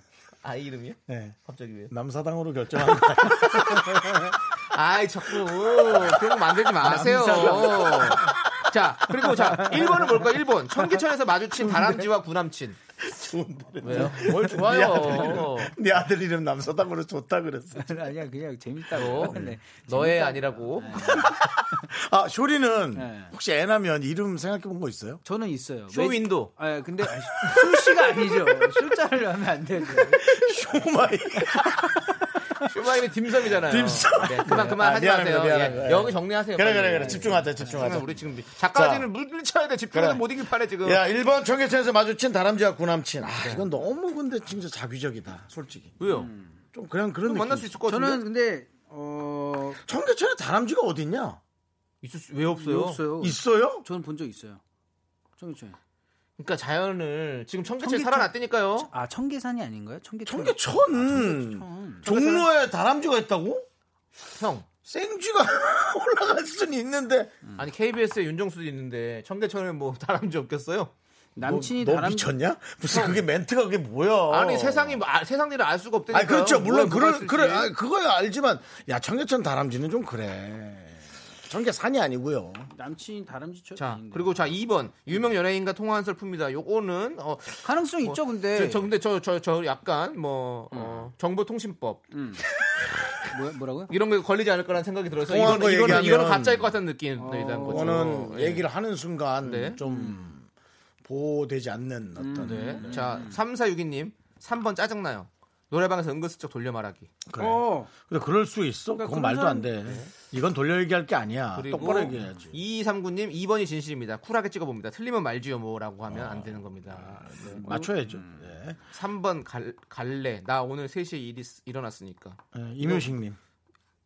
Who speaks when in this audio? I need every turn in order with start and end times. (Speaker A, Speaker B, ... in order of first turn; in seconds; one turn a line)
Speaker A: 0.4-1.9
Speaker B: 1.1-1.4
Speaker B: 1.9-4.3
Speaker A: 3.2-12.8
Speaker B: 5.5-8.4
Speaker C: 6.9-8.3
Speaker C: 9.2-10.3
Speaker B: 11.6-12.1
Speaker B: 13.0-18.1
Speaker A: 13.8-15.7
Speaker C: 13.8-14.6
Speaker C: 15.1-15.4
Speaker C: 17.8-21.4
Speaker A: 18.9-21.3
Speaker B: 19.1-19.6
Speaker B: 21.0-25.2
Speaker C: 22.9-23.3
Speaker C: 25.2-30.4
Speaker A: 25.9-26.5
Speaker B: 27.0-28.9
Speaker B: 30.0-32.1
Speaker A: 32.6-41.0
Speaker B: 33.5-39.1
Speaker C: 36.9-38.0
Speaker B: 39.9-40.2
Speaker B: 40.8-46.0
Speaker A: 43.4-43.7
Speaker A: 46.0-46.3
Speaker C: 46.0-46.6
Speaker B: 46.7-47.8
Speaker A: 47.2-48.2
Speaker C: 47.9-49.8
Speaker B: 49.8-51.4
Speaker A: 52.0-53.0
Speaker C: 52.5-54.6
Speaker B: 53.2-53.9
Speaker C: 55.4-55.8
Speaker A: 56.4-58.9
Speaker C: 57.8-62.3
Speaker B: 60.2-63.7
Speaker A: 62.1-62.4
Speaker A: 64.3-64.7
Speaker B: 64.8-67.3
Speaker A: 67.6-70.9
Speaker C: 71.4-72.4
Speaker B: 71.4-75.0
Speaker A: 72.9-73.2
Speaker A: 74.3-77.7
Speaker B: 76.1-82.7
Speaker C: 82.7-84.6
Speaker A: 83.8-92.1
Speaker C: 87.6-88.9
Speaker C: 90.7-91.1
Speaker C: 92.1-92.4
Speaker C: 93.3-93.9
Speaker A: 93.9-98.7
Speaker B: 95.2-96.7
Speaker C: 97.2-98.3
Speaker B: 97.7-100.5
Speaker A: 99.4-99.8
Speaker C: 99.8-100.2
Speaker B: 101.0-103.0
Speaker C: 102.2-103.4
Speaker A: 102.4-107.1
Speaker B: 107.2-112.5
Speaker C: 107.4-107.9
Speaker C: 108.9-109.9
Speaker A: 111.5-117.9
Speaker C: 111.8-112.4
Speaker B: 116.1-118.8
Speaker C: 117.5-118.5
Speaker A: 118.9-123.1
Speaker B: 122.5-123.4